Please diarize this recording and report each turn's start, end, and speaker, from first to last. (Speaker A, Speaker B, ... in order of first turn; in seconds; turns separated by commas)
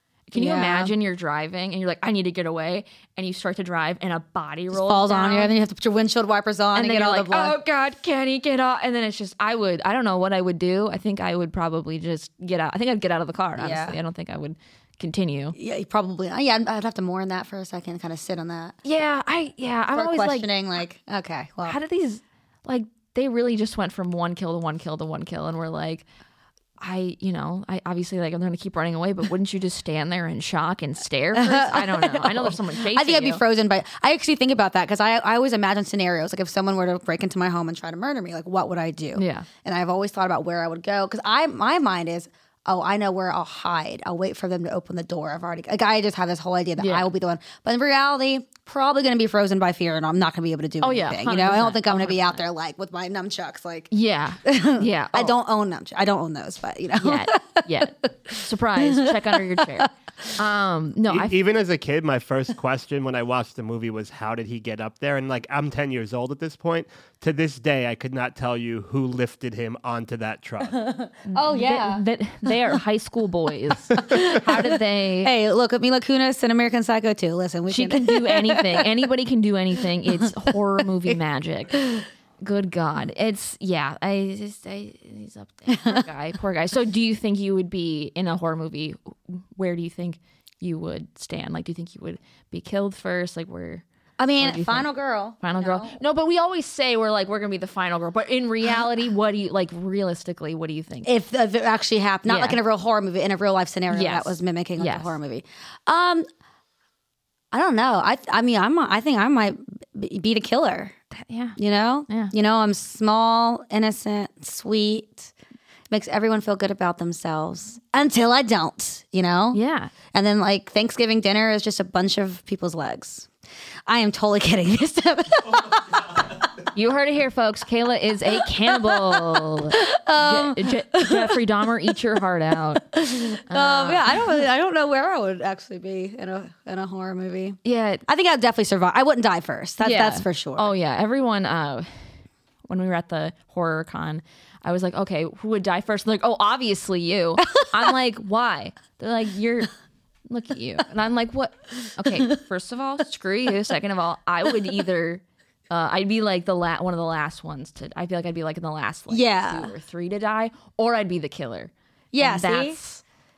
Speaker A: 0.3-5.5, Speaker B: 0.3-0.9, Speaker B: 4.7-7.6, Speaker A: 6.7-15.6, Speaker B: 13.6-14.0, Speaker B: 15.6-18.8, Speaker A: 18.8-20.5, Speaker B: 19.9-21.8, Speaker A: 21.6-26.1, Speaker A: 26.8-33.4, Speaker B: 31.4-53.9, Speaker A: 39.1-39.5, Speaker A: 46.8-47.1, Speaker A: 50.8-52.4, Speaker A: 53.9-55.3, Speaker B: 54.4-60.3, Speaker A: 57.0-61.4, Speaker C: 61.1-70.9, Speaker B: 70.8-72.5, Speaker A: 71.3-75.3, Speaker B: 73.9-79.0, Speaker A: 77.7-81.8, Speaker B: 81.8-82.1, Speaker A: 82.4-93.8, Speaker B: 85.7-86.0, Speaker B: 94.2-96.0, Speaker A: 94.4-94.9, Speaker A: 95.4-101.1, Speaker B: 101.0-106.2, Speaker A: 102.3-102.6, Speaker A: 103.9-105.2, Speaker B: 107.5-111.0, Speaker A: 111.1-111.6, Speaker B: 111.6-115.3, Speaker B: 115.9-119.6, Speaker A: 119.5-119.9, Speaker B: 120.1-123.3, Speaker B: 123.9-126.5, Speaker A: 126.7-132.8, Speaker B: 128.3-131.5, Speaker B: 132.9-140.7, Speaker A: 133.5-134.3, Speaker A: 137.6-138.0, Speaker A: 139.8-142.0, Speaker A: 142.7-149.7, Speaker B: 147.6-147.9, Speaker A: 150.3-163.0, Speaker B: 159.1-159.7, Speaker B: 162.1-162.8